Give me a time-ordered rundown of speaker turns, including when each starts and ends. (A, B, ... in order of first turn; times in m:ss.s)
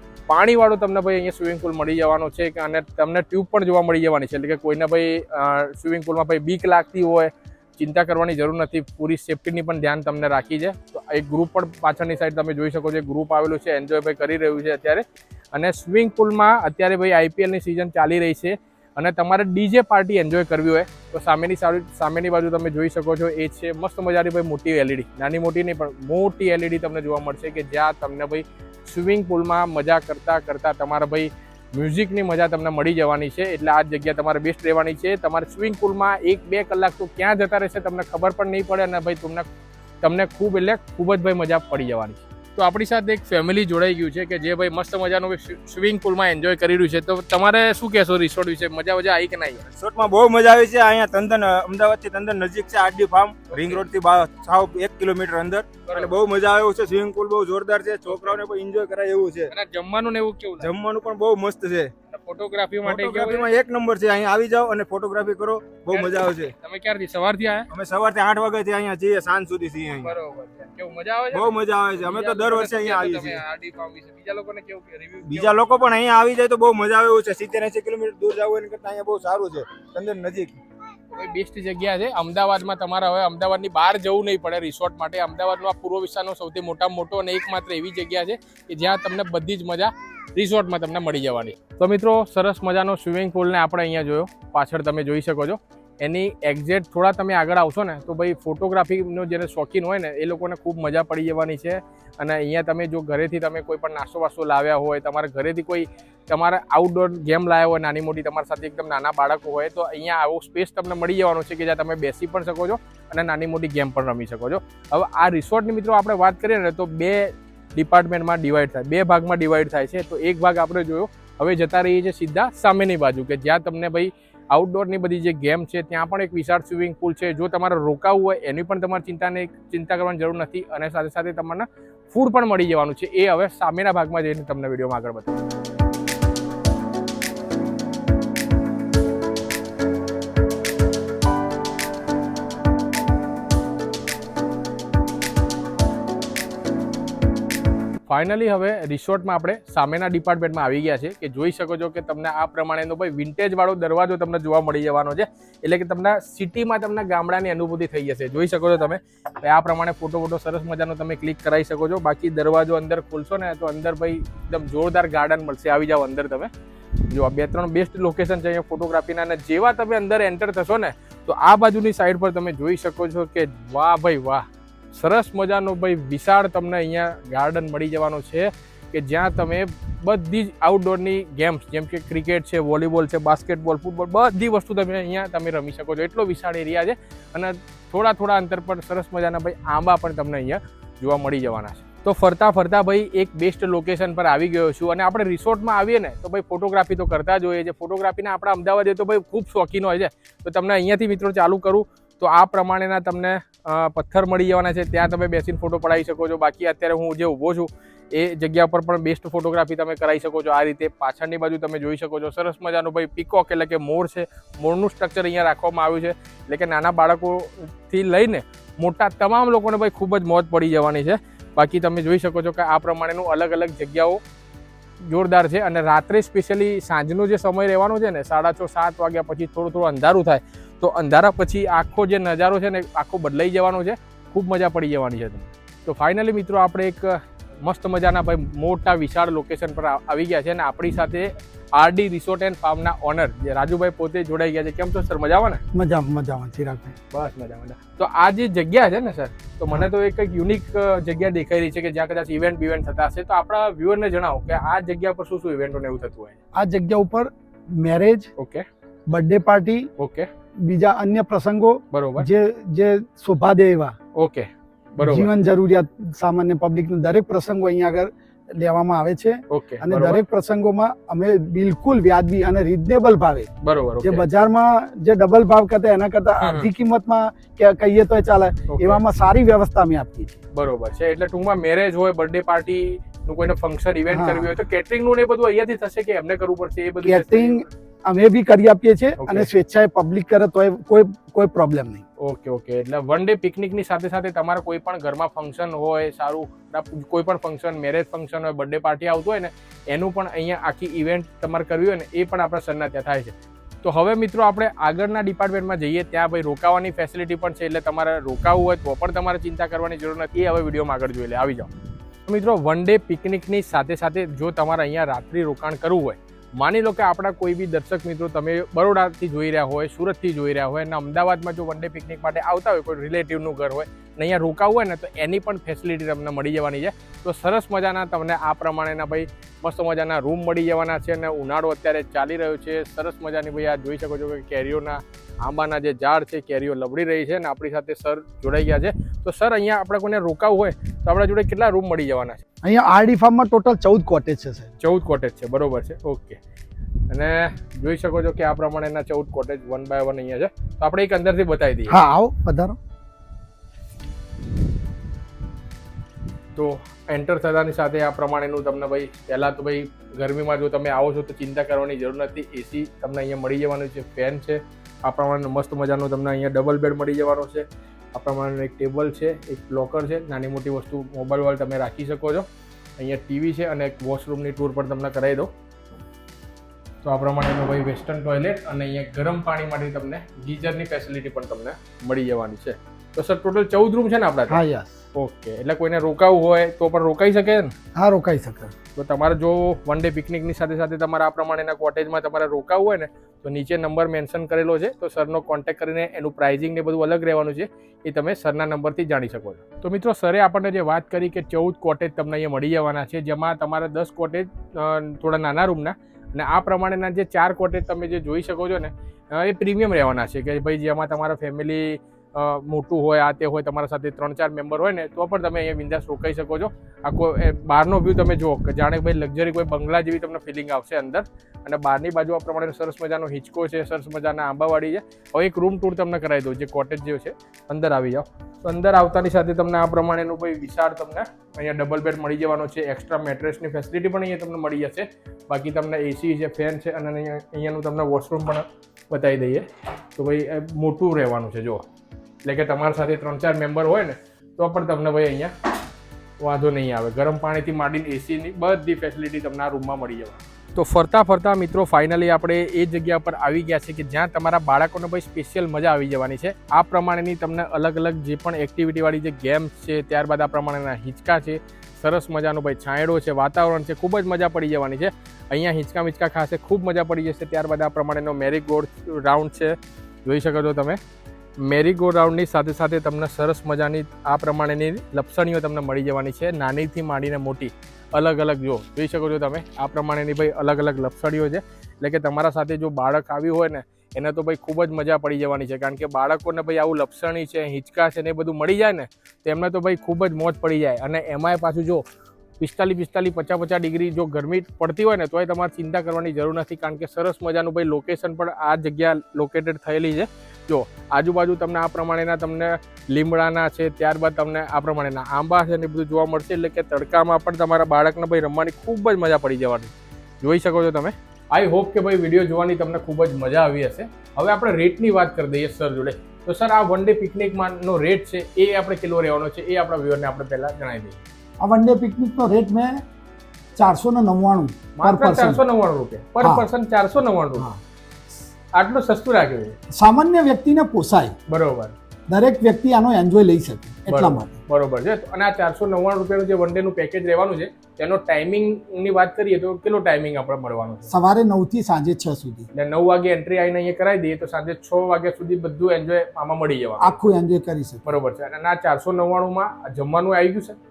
0:00.3-0:39.5 A
0:40.0-0:49.7 A
0:49.8-0:59.5 B
0:53.5-0:53.8 A
0:55.9-0:56.1 A
0:58.1-0:58.4 A
0:59.5-1:00.7 A
1:00.6-1:01.9 B
1:02.1-1:03.5 A
1:02.8-1:06.5 B
1:05.9-1:07.7 A
1:07.7-1:10.2 B
1:10.0-1:15.7 A
1:11.3-1:13.4 B
1:15.2-1:20.6 B
1:21.1-2:15.4 A
2:28.1-2:46.5 A
2:47.0-3:44.2 A
3:45.1-4:05.6 A
4:05.7-4:07.0 C
4:07.1-4:16.4 A
4:16.6-4:18.3 C
4:18.4-4:18.6 A
4:19.1-4:19.9 C
4:20.0-4:20.3 A
4:20.6-4:23.9 C
4:21.9-4:22.3 A
4:24.2-4:25.3 A
4:25.0-4:33.5 C
4:29.5-4:30.2 A
4:33.6-4:34.2 A
4:34.0-4:40.4 C
4:36.4-4:36.7 A
4:38.7-4:39.0 A
4:40.6-4:47.7 A
4:44.1-4:44.6 C
4:47.0-4:52.0 C
4:49.2-4:49.5 A
4:52.2-5:11.7 A
5:12.3-5:42.4 A
5:42.6-5:44.7 C
5:44.8-5:46.4 A
5:47.1-5:52.0 A
5:51.9-5:52.8 C
5:56.6-6:12.5 A
6:13.0-6:15.5 A
6:17.0-6:24.6 A
6:24.5-6:25.0 C
6:25.2-6:27.7 A
6:28.0-6:28.7 C
6:29.0-7:19.6 A
7:20.2-7:21.8 A
7:22.4-7:25.5 A
7:26.4-7:51.0 A
7:51.6-8:12.0 A
8:12.6-8:41.2 A
8:41.6-8:43.0 C
8:43.8-8:45.6 C
8:45.0-8:47.7 A
8:46.4-8:46.7 C
8:48.8-8:49.8 A
8:50.0-8:51.3 C
8:51.5-8:52.0 A
8:52.3-8:54.6 C
8:54.1-9:01.1 A
9:01.1-9:02.7 C
9:02.7-9:07.2 A
9:07.0-9:08.1 C
9:08.0-9:10.8 A